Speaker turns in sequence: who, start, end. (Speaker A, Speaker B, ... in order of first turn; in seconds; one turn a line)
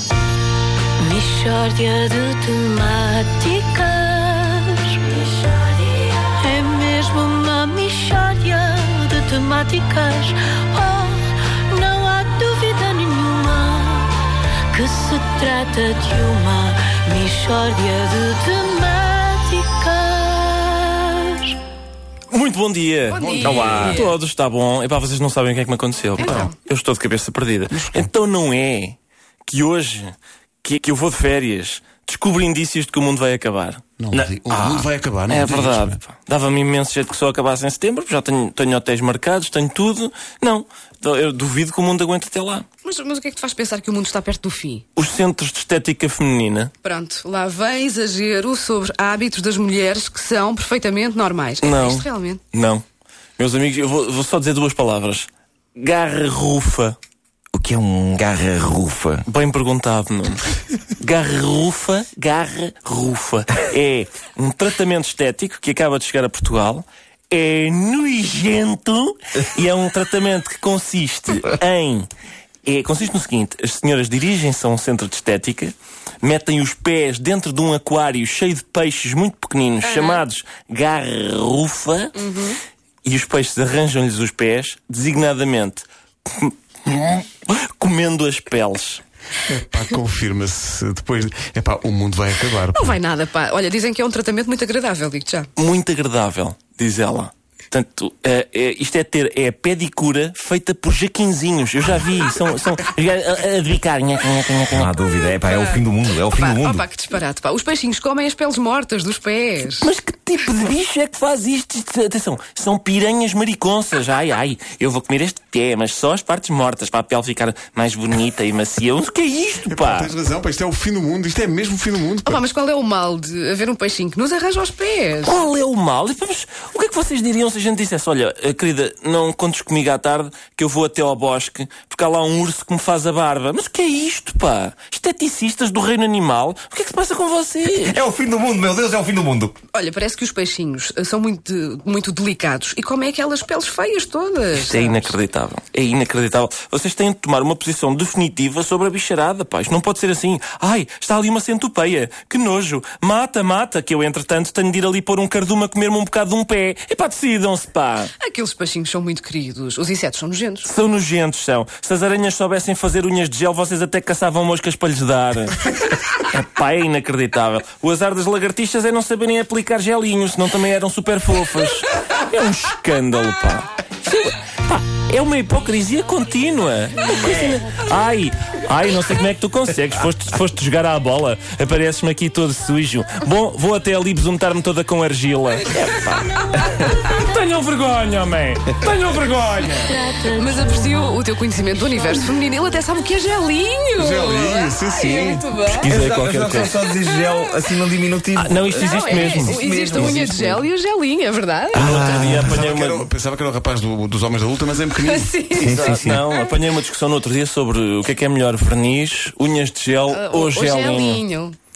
Speaker A: 1.0-14.1
Speaker A: 14.7-21.6
Speaker B: 22.3-42.6
Speaker C: 23.1-24.1
Speaker D: 23.1-24.1
Speaker C: 26.2-26.6
Speaker D: 26.2-26.5
Speaker D: 27.7-28.1
Speaker D: 34.0-36.0
Speaker C: 42.8-44.8
Speaker B: 44.9-46.7
Speaker C: 46.8-52.4
Speaker B: 51.6-52.8
Speaker B: 53.4-57.0
Speaker E: 57.5-59.2
Speaker B: 59.2-72.1
Speaker B: 72.6-82.2
Speaker C: 79.8-80.2
Speaker C: 82.2-82.6
Speaker B: 83.0-89.0
Speaker D: 89.4-93.0
Speaker C: 92.7-95.5
Speaker B: 95.5-104.9
Speaker E: 104.7-106.8
Speaker C: 105.2-109.9
Speaker B: 109.8-120.1
Speaker D: 119.7-122.4
Speaker C: 122.2-125.4
Speaker B: 125.2-138.0
Speaker E: 137.7-139.5
Speaker C: 139.7-145.1
Speaker B: 144.5-158.1
Speaker C: 158.2-160.7
Speaker B: 160.6-190.0
Speaker A: 189.8-191.2
Speaker C: 190.3-195.9
Speaker D: 194.0-195.5
Speaker B: 195.7-196.7
Speaker E: 195.8-200.6
Speaker C: 196.7-197.5
Speaker B: 198.3-200.2
Speaker C: 198.7-201.9
Speaker B: 201.7-203.1
Speaker E: 201.8-202.5
Speaker D: 202.0-205.3
Speaker C: 204.9-206.5
Speaker E: 205.5-206.2
Speaker B: 205.7-211.2
Speaker C: 210.1-211.6